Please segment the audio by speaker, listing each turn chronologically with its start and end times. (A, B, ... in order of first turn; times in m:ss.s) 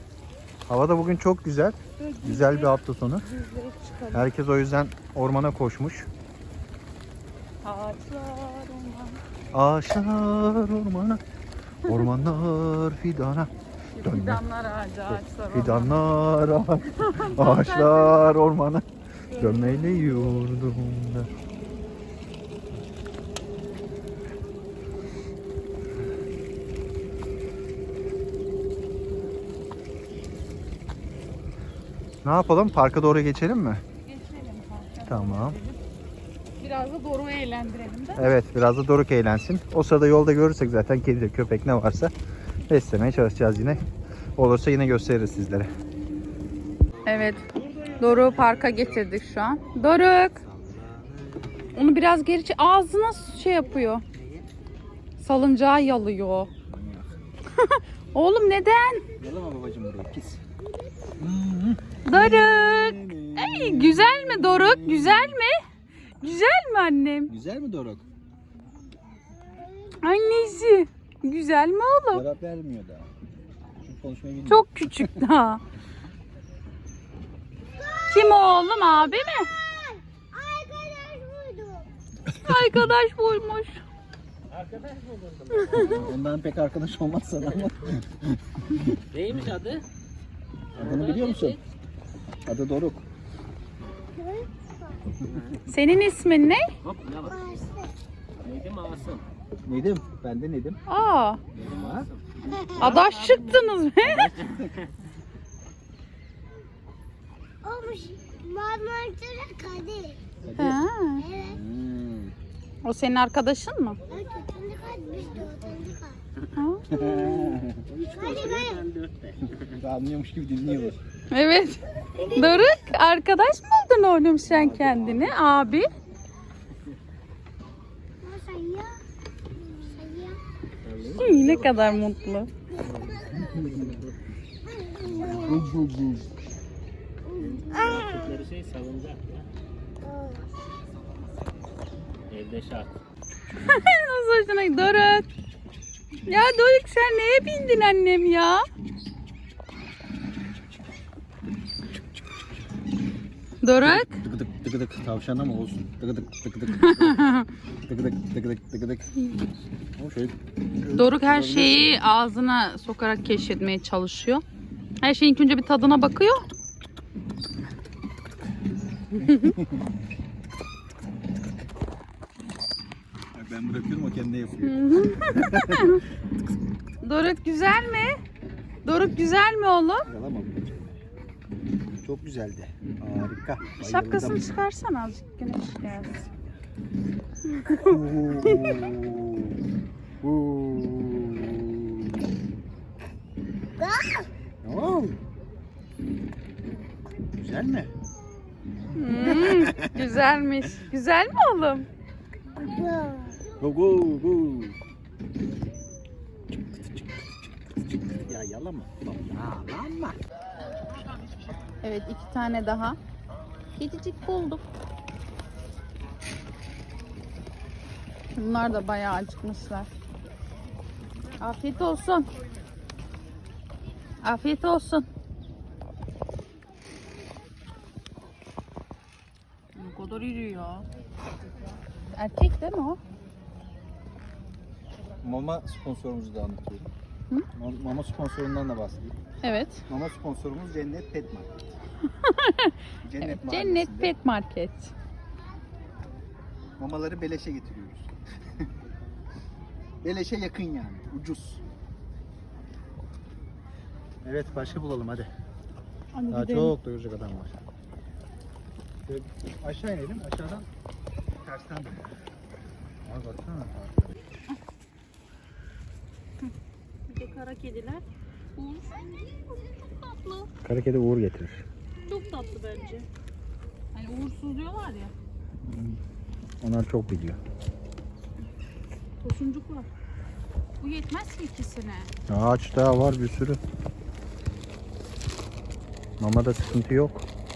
0:00.7-0:03.3 A
0:02.0-0:04.3 B
0:04.1-0:06.1 A
0:07.6-0:09.2 B
0:09.5-0:11.2 A
0:11.9-0:13.5 A
0:13.9-0:16.1 B
0:14.0-0:14.4 A
0:15.1-0:21.3 A
0:16.9-0:18.3 B
0:19.3-0:20.5 B
0:32.2-0:33.8 A
0:34.0-0:35.8 B
0:35.1-0:35.6 A
0:36.6-0:38.3 B
0:38.2-0:42.1 A
0:42.7-0:43.8 A
0:44.4-0:45.7 A
0:47.1-0:47.4 B
0:48.0-0:50.4 B
0:48.0-0:51.8 A
0:51.7-0:54.0 B
0:54.1-0:54.5 A
0:55.2-0:56.5 B
0:56.7-0:57.2 A
0:57.6-0:59.0 B
0:59.2-1:00.4 A
1:01.2-1:05.4 A
1:02.1-1:05.6 B
1:06.2-1:07.3 B
1:07.3-1:08.0 A
1:10.0-1:12.2 B
1:12.1-1:13.1 A
1:13.8-1:15.1 A
1:14.5-1:15.6 B
1:18.1-1:19.5 B
1:20.3-1:21.9 C
1:22.3-1:23.8 B
1:22.5-1:22.7 A
1:24.5-1:25.8 D
1:25.7-1:29.0 A
1:29.1-1:29.9 D
1:30.8-1:31.6 A
1:30.8-1:31.6 D
1:32.4-1:33.0 A
1:35.3-1:35.6 D
1:35.6-1:36.7 B
1:36.8-1:37.7 D
1:38.4-1:39.2 D
1:39.6-1:40.8 A
1:40.9-1:41.4 B
1:41.6-1:42.1 A
1:41.6-1:44.9 D
1:42.8-1:44.4 B
1:47.6-1:50.2 C
1:50.4-1:50.8 A
1:50.6-1:51.3 B
1:51.4-1:52.3 A
1:52.8-1:54.0 B
1:54.1-1:56.2 C
1:56.5-1:57.1 B
1:56.9-1:57.9 A
1:57.9-1:59.7 D
1:58.4-1:58.6 C
1:59.7-2:01.0 A
2:01.3-2:05.9 B
2:04.4-2:05.4 A
2:08.2-2:09.0 C
2:09.7-2:10.4 C
2:10.8-2:11.7 D
2:11.1-2:12.5 B
2:12.8-2:14.1 D
2:13.3-2:13.9 A
2:15.1-2:16.3 A
2:17.4-2:19.5 D
2:22.3-2:23.0 D
2:23.6-2:25.3 B
2:26.3-2:28.7 B
2:33.6-2:34.2 B
2:33.8-2:37.2 A
2:36.7-2:37.5 B
2:37.9-2:39.1 A
2:39.2-2:39.5 B
2:40.0-2:42.0 A
2:40.9-2:44.4 B
2:45.0-2:46.5 B
2:49.2-2:49.6 B
2:49.2-2:49.8 A
2:53.3-2:56.0 A
2:54.6-2:56.0 B
2:57.0-2:58.2 B
2:58.8-3:00.1 B
3:00.1-3:01.0 A
3:02.0-3:04.6 A
3:03.8-3:06.2 B
3:07.5-3:08.6 B
3:07.8-3:09.6 A
3:10.2-3:12.2 A
3:13.8-3:15.2 A
3:17.4-3:17.9 A
3:19.0-3:21.9 B
3:19.0-3:20.2 A
3:22.5-3:24.8 A
3:26.6-3:27.3 A
3:28.0-3:30.2 A
3:31.8-3:33.0 B
3:33.8-3:34.6 B
3:38.4-3:39.9 B
3:41.4-3:42.3 B
3:44.2-3:45.1 B
3:49.7-3:50.9 B
3:52.2-3:53.0 B
3:55.2-3:56.9 A
3:57.6-3:59.2 A
3:59.4-3:59.8 B
3:59.9-4:01.7 A
4:02.0-4:04.9 B
4:03.0-4:04.1 A
4:06.8-4:08.7 A
4:10.0-4:11.6 A
4:14.2-4:15.3 A
4:16.2-4:16.8 B
4:16.3-4:17.6 A
4:19.1-4:20.7 A
4:21.4-4:22.2 A
4:23.0-4:24.2 A
4:27.1-4:28.0 B
4:28.6-4:30.5 B
4:30.6-4:31.7 A
4:32.1-4:33.1 B
4:33.9-4:35.1 B
4:35.6-4:36.0 A
4:36.6-4:37.4 A
4:39.2-4:39.9 B
4:40.8-4:42.1 B
4:42.3-4:43.6 A
4:46.2-4:47.3 A